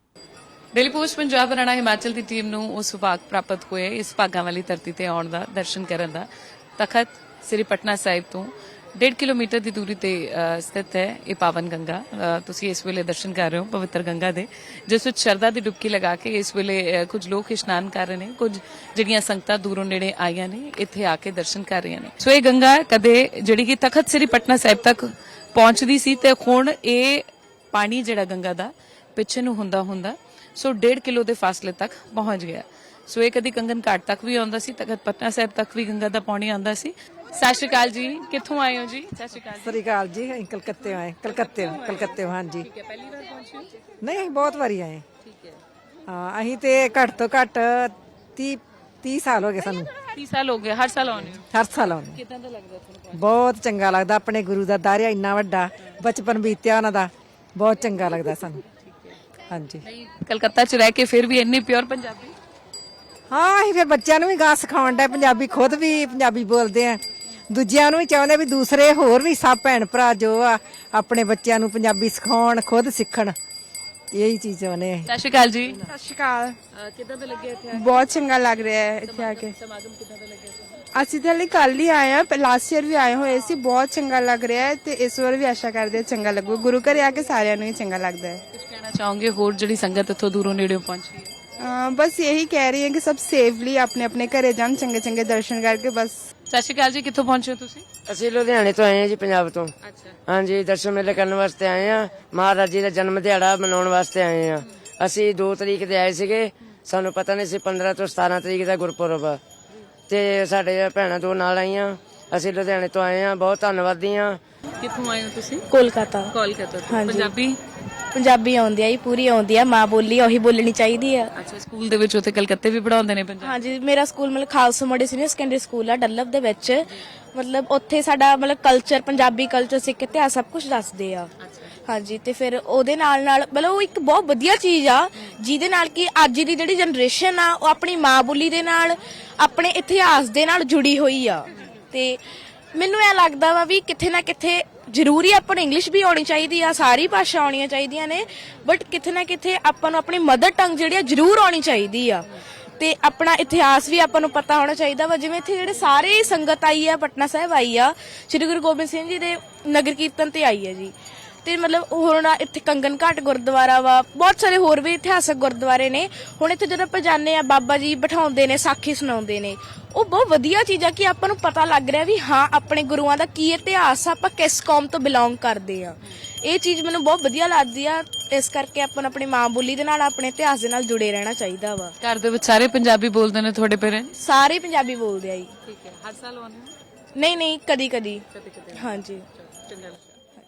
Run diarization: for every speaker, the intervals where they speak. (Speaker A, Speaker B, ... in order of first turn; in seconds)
Speaker A: 0.7-39.8, 42.8-43.7, 50.1-51.5, 52.1-53.0, 59.9-62.4, 75.1-75.8, 76.8-78.1, 79.0-80.6, 88.5-91.3, 96.5-97.8, 114.8-115.7, 116.3-117.6, 121.4-123.6, 182.0-184.1, 185.7-186.7, 189.6-190.0
Speaker B: 39.6-42.7, 44.0-45.0, 46.1-49.9, 51.5-52.2, 53.1-58.6, 59.5-59.8, 63.3-73.4, 74.1-75.1
Speaker C: 75.9-76.6, 77.7-79.5, 80.9-88.4, 91.6-96.3
Speaker D: 98.1-99.7, 100.3-109.4, 110.1-114.4
Speaker E: 115.7-116.3, 116.9-117.3, 118.1-121.3, 123.4-131.3, 131.9-142.2, 142.7-160.9, 161.4-181.9, 184.2-185.5, 187.2-189.3